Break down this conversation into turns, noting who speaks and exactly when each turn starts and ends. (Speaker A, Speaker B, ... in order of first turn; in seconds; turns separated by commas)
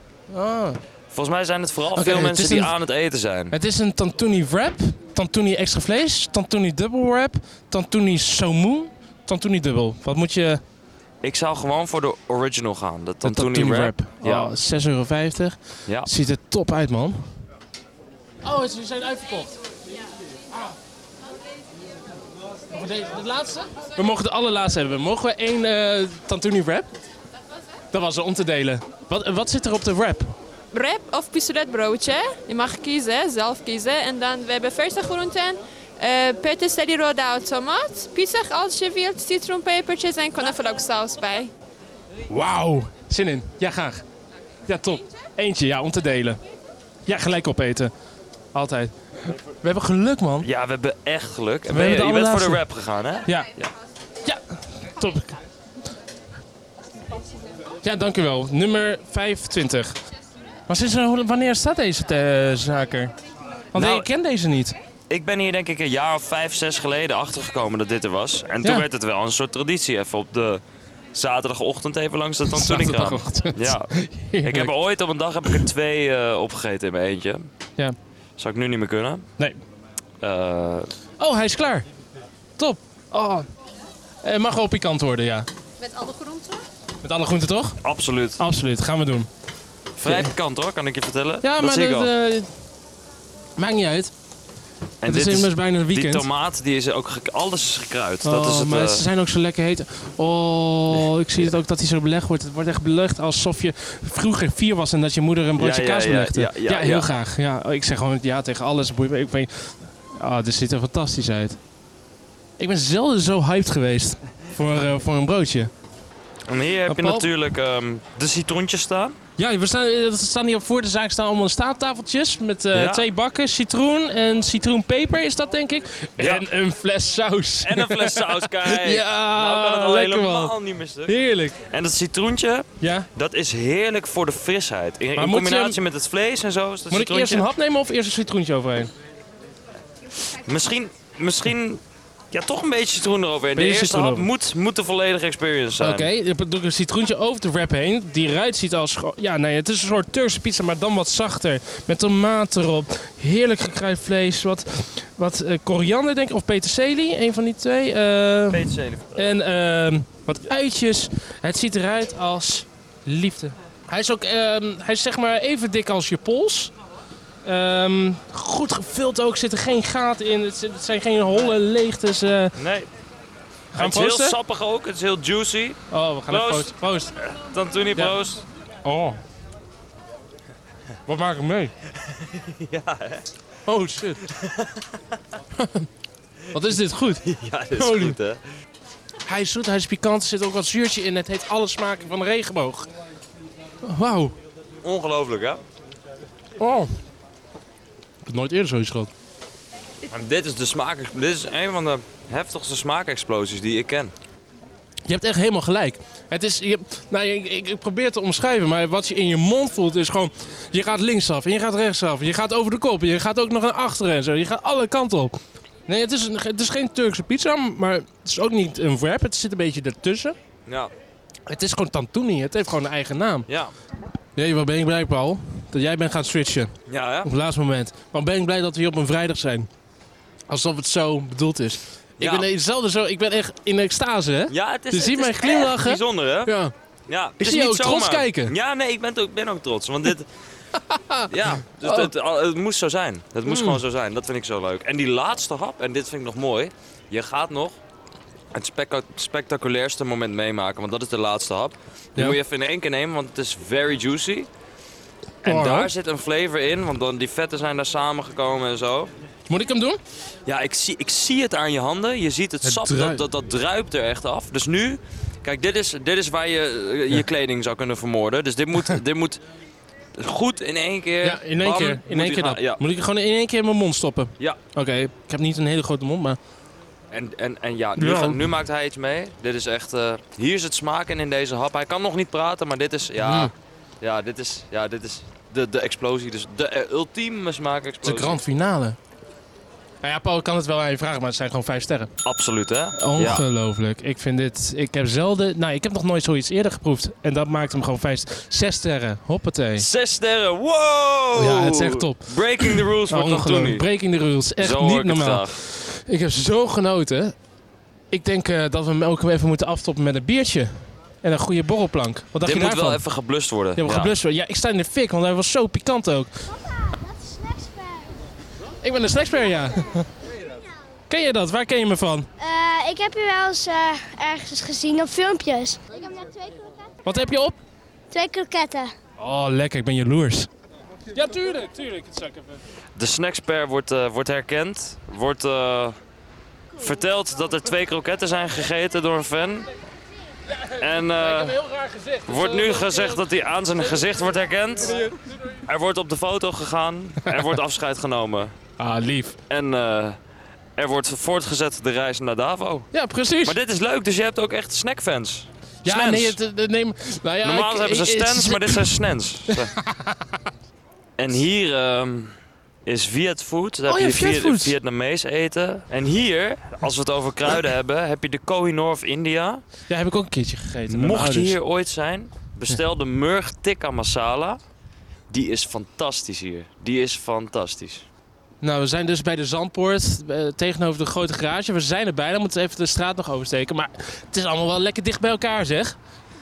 Speaker A: 0.3-0.8, Speaker B: 1.1-3.5, Speaker A: 1.9-2.7, Speaker A: 3.5-10.6, Speaker B: 11.2-14.5, Speaker A: 13.2-17.3, Speaker A: 18.4-19.6, Speaker A: 22.7-26.9, Speaker A: 27.9-30.3, Speaker C: 30.7-41.5, Speaker A: 42.3-44.0, Speaker A: 44.6-46.4, Speaker A: 47.0-47.9, Speaker A: 48.5-50.5, Speaker B: 50.4-53.7, Speaker A: 51.7-52.6, Speaker A: 54.2-55.3, Speaker A: 57.8-59.9, Speaker A: 60.7-63.1, Speaker A: 63.7-64.8, Speaker B: 63.7-64.1, Speaker B: 65.1-70.6, Speaker B: 71.1-77.5, Speaker A: 72.5-74.7, Speaker B: 78.4-79.2, Speaker B: 80.2-80.9, Speaker A: 81.2-81.8, Speaker A: 82.6-83.5, Speaker A: 84.2-85.5, Speaker A: 87.0-87.8, Speaker B: 87.8-88.4, Speaker A: 88.4-89.3, Speaker B: 90.0-92.1, Speaker A: 90.0-90.3, Speaker A: 91.4-92.5, Speaker A: 93.6-94.1, Speaker B: 95.0-99.0, Speaker A: 95.0-96.2, Speaker A: 98.2-111.6, Speaker B: 105.6-107.1, Speaker A: 112.6-115.7, Speaker B: 116.5-119.2, Speaker A: 116.9-117.3, Speaker A: 119.4-130.5, Speaker B: 122.7-123.0, Speaker B: 126.2-126.5, Speaker B: 127.6-137.5, Speaker A: 131.1-131.6, Speaker A: 132.8-133.1, Speaker A: 135.2-135.8, Speaker A: 136.9-138.9, Speaker B: 140.3-141.8, Speaker B: 142.3-146.1, Speaker A: 143.6-144.3, Speaker A: 145.8-166.7, Speaker B: 158.5-159.2, Speaker A: 167.4-172.6, Speaker B: 172.6-172.9, Speaker A: 173.7-174.4, Speaker B: 173.8-178.4, Speaker A: 175.9-177.1, Speaker A: 178.8-179.2, Speaker A: 181.1-181.7, Speaker B: 182.0-183.3, Speaker A: 183.7-184.2, Speaker B: 184.3-185.0, Speaker A: 185.6-185.9, Speaker A: 186.5-188.2, Speaker B: 187.2-188.4, Speaker A: 189.2-192.9, Speaker A: 193.8-194.3, Speaker B: 194.8-195.6, Speaker A: 196.6-196.9, Speaker A: 198.2-199.1, Speaker B: 200.1-204.1, Speaker A: 205.1-220.3, Speaker B: 220.7-220.9, Speaker A: 221.5-223.5, Speaker B: 223.5-223.7, Speaker A: 224.3-229.7, Speaker B: 226.9-227.3, Speaker A: 230.5-236.7, Speaker B: 232.2-232.5, Speaker B: 234.5-236.5, Speaker B: 237.1-240.3, Speaker A: 237.4-238.5, Speaker A: 240.8-241.3, Speaker B: 241.3-247.8, Speaker A: 241.8-242.1, Speaker A: 243.4-243.8, Speaker B: 248.5-254.5, Speaker A: 255.4-255.9, Speaker B: 255.4-259.1, Speaker A: 259.5-260.0, Speaker B: 260.5-269.4, Speaker A: 262.6-263.2, Speaker B: 270.1-272.8, Speaker A: 271.2-276.4, Speaker B: 277.1-288.4, Speaker A: 278.0-278.4, Speaker A: 283.2-283.5, Speaker A: 288.0-289.0, Speaker A: 290.0-292.1, Speaker B: 292.2-293.4, Speaker A: 293.0-299.9, Speaker B: 299.8-303.9, Speaker A: 301.3-307.3, Speaker B: 304.6-305.6, Speaker A: 308.1-313.0, Speaker B: 312.4-314.1, Speaker A: 313.8-316.5, Speaker D: 316.9-318.1, Speaker A: 318.8-320.1, Speaker A: 321.1-322.3, Speaker D: 322.4-326.9, Speaker A: 327.0-327.6, Speaker D: 328.1-328.9, Speaker A: 329.2-330.5, Speaker A: 331.1-332.6, Speaker B: 332.9-336.0, Speaker B: 336.8-339.7, Speaker A: 340.5-343.2, Speaker B: 340.8-341.6, Speaker B: 342.3-345.1, Speaker A: 344.9-345.2, Speaker B: 345.6-348.5, Speaker A: 348.8-349.4, Speaker B: 349.5-350.2, Speaker B: 350.8-352.9, Speaker A: 352.9-353.6, Speaker B: 353.4-356.4, Speaker A: 355.8-359.0, Speaker B: 357.4-359.8, Speaker A: 359.5-360.2, Speaker B: 361.2-369.6, Speaker A: 363.9-364.8, Speaker A: 369.9-371.6, Speaker B: 370.9-374.6, Speaker B: 375.3-378.1, Speaker A: 378.6-385.9